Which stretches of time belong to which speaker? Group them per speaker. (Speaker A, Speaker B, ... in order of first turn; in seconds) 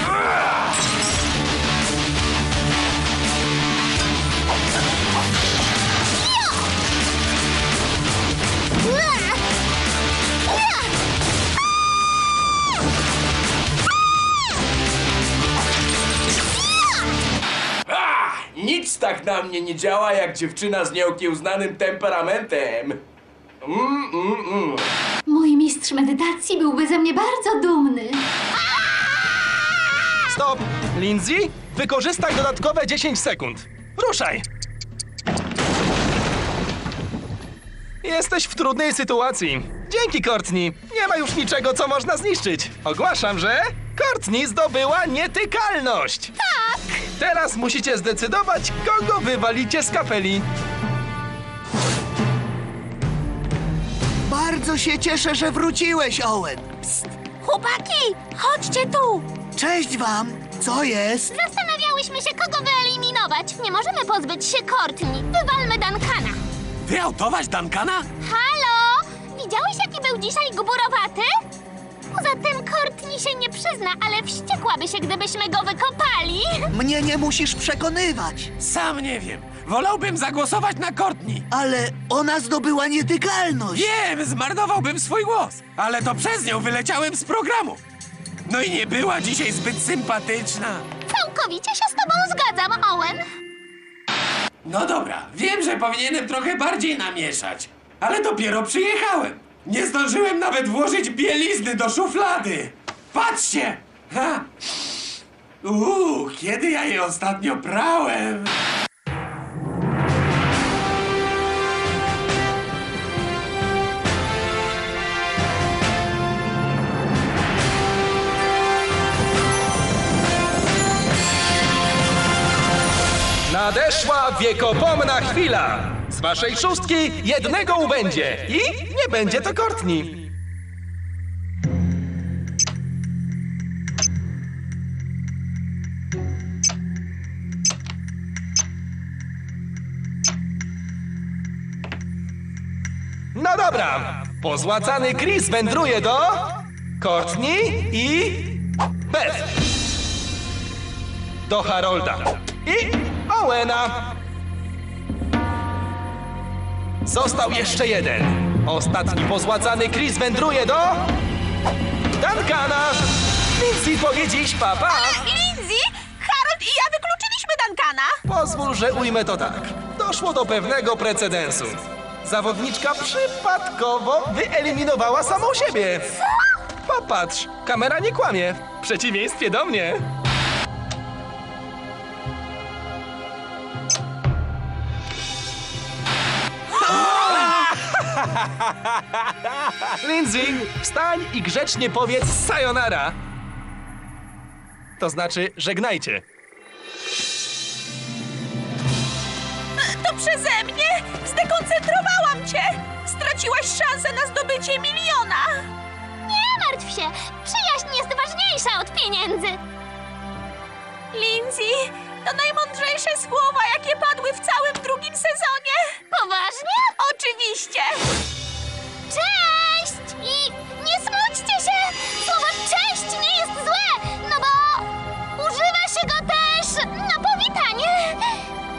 Speaker A: 8.8-9.4, 61.3-66.4, 68.2-71.3, 72.1-76.7, 91.1-93.2, 206.2-209.6, 216.1-216.9, 219.1-228.2
Speaker B: 17.9-23.0, 23.6-24.9
Speaker C: 25.2-28.2, 46.4-46.8
Speaker D: 30.2-34.4, 38.0-46.3, 47.2-50.5, 123.5-130.3, 143.3-149.5, 151.5-154.2, 157.1-161.1, 162.2-165.2, 168.3-176.1, 176.9-180.0, 186.9-187.6, 190.0-193.2, 195.0-196.2
Speaker E: 54.3-57.0, 59.5-61.3, 76.7-78.5, 81.5-83.9
Speaker F: 57.4-59.3, 164.9-168.2, 199.8-205.7, 211.1-216.0, 217.0-218.0
Speaker G: 66.8-68.1, 78.6-81.4, 83.7-87.8, 88.5-90.8, 94.6-104.9, 105.6-108.5